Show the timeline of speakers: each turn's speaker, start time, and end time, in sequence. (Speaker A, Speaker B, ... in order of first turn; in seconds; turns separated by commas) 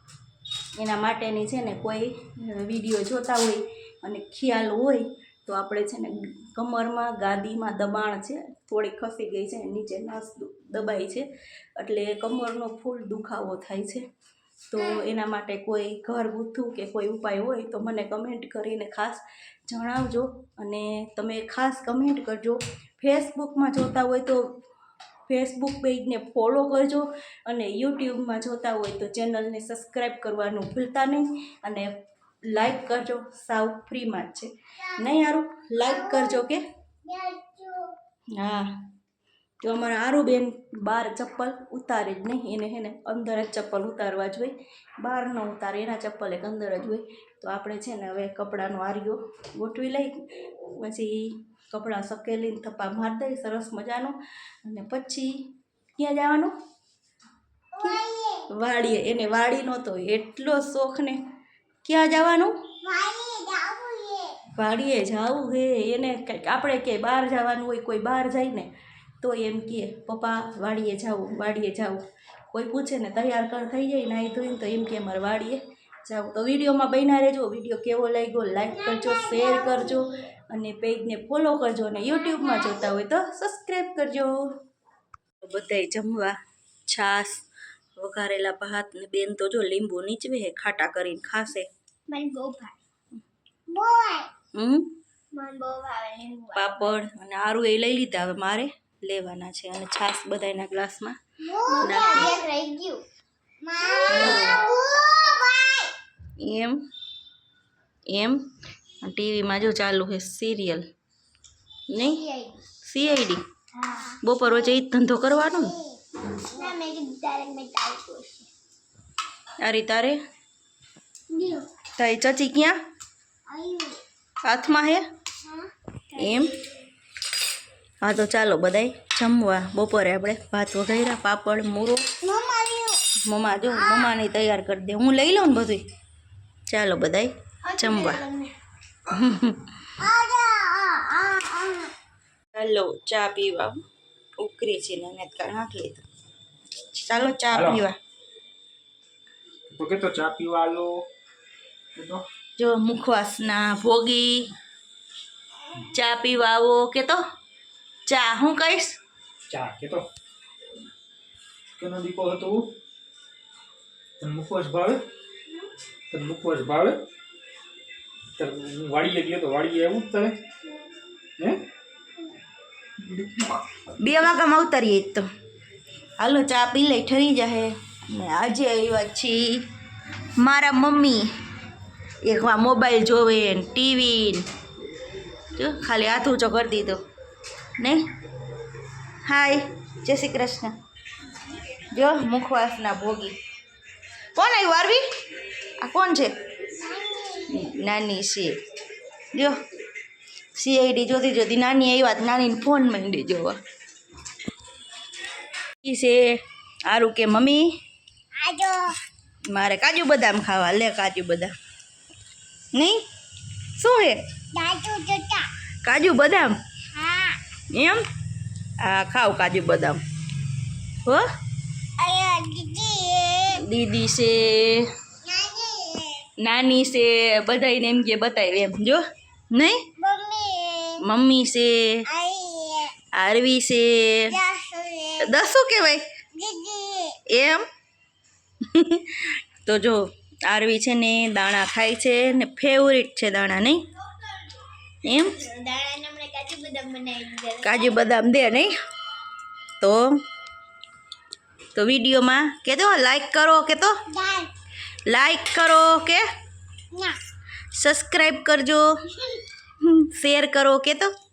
Speaker A: 0.8-11.2, Speaker A: 11.8-14.0, Speaker A: 14.7-24.5, Speaker A: 25.3-32.0, Speaker A: 32.5-36.6, Speaker B: 34.8-35.1, Speaker B: 35.8-36.4, Speaker B: 37.1-38.0, Speaker A: 38.3-38.8, Speaker A: 39.6-55.4, Speaker A: 56.0-56.5, Speaker B: 57.8-58.5, Speaker A: 57.8-61.2, Speaker A: 61.8-62.5, Speaker B: 62.8-64.4, Speaker A: 64.5-68.7, Speaker A: 69.2-84.5, Speaker B: 78.8-80.1, Speaker B: 82.1-82.9, Speaker A: 85.4-86.4, Speaker A: 86.9-87.4, Speaker A: 88.0-91.7, Speaker B: 92.1-92.8, Speaker B: 93.7-94.3, Speaker A: 94.5-94.9, Speaker B: 95.3-96.8, Speaker A: 96.5-101.2, Speaker B: 101.4-103.0, Speaker A: 101.8-102.3, Speaker B: 103.6-105.9, Speaker A: 104.1-104.6, Speaker A: 106.4-106.8, Speaker A: 108.1-108.5, Speaker A: 109.0-110.9, Speaker A: 111.9-112.2, Speaker B: 112.0-112.7, Speaker A: 112.8-113.4, Speaker B: 113.8-114.7, Speaker A: 114.2-115.8, Speaker B: 115.5-118.5, Speaker A: 119.6-120.2, Speaker B: 121.3-121.7, Speaker A: 122.0-122.8, Speaker B: 123.5-124.0, Speaker A: 124.4-125.1, Speaker B: 125.4-126.5, Speaker A: 126.1-126.5, Speaker A: 128.0-132.0, Speaker B: 132.2-133.0, Speaker A: 133.3-135.8, Speaker B: 133.8-134.1, Speaker A: 136.7-138.2, Speaker B: 137.7-138.5, Speaker A: 139.1-139.7, Speaker B: 140.0-141.9, Speaker A: 142.5-143.8, Speaker A: 144.4-146.0, Speaker A: 146.9-148.0, Speaker C: 147.5-147.8, Speaker C: 149.7-151.0, Speaker C: 151.9-152.2, Speaker A: 152.6-154.4, Speaker A: 155.8-157.2, Speaker A: 158.1-159.0, Speaker C: 159.5-160.1, Speaker C: 161.8-162.7, Speaker C: 164.2-165.0, Speaker C: 166.1-167.0, Speaker C: 168.4-170.4, Speaker A: 173.1-175.3, Speaker A: 176.2-179.6, Speaker A: 180.4-181.3, Speaker A: 182.2-184.5, Speaker A: 185.5-187.0, Speaker A: 187.8-188.0, Speaker A: 189.2-190.8, Speaker A: 191.9-193.3, Speaker A: 194.3-195.0, Speaker A: 195.8-196.3, Speaker B: 196.8-197.7, Speaker A: 197.5-198.5, Speaker A: 200.6-203.6, Speaker A: 205.8-207.7, Speaker B: 208.4-209.0, Speaker A: 209.5-211.5, Speaker A: 212.7-213.1, Speaker A: 213.8-214.2, Speaker B: 214.5-215.5, Speaker A: 215.8-216.6, Speaker B: 216.9-217.4, Speaker A: 217.7-218.0, Speaker A: 218.8-220.0, Speaker B: 222.0-223.6, Speaker A: 223.5-224.9, Speaker B: 225.2-226.3, Speaker A: 226.4-229.9, Speaker B: 230.0-231.0, Speaker A: 231.0-232.1, Speaker B: 232.1-233.0, Speaker A: 233.1-234.4, Speaker B: 234.3-235.3, Speaker A: 235.2-236.1, Speaker B: 236.3-237.2, Speaker A: 237.3-237.7, Speaker A: 238.6-243.8, Speaker A: 245.0-245.5, Speaker B: 245.4-248.0, Speaker A: 247.6-248.7, Speaker A: 249.8-250.2, Speaker A: 251.8-254.0, Speaker B: 254.1-254.5, Speaker A: 255.1-256.2, Speaker B: 256.9-257.2, Speaker A: 257.8-258.9, Speaker A: 259.8-261.1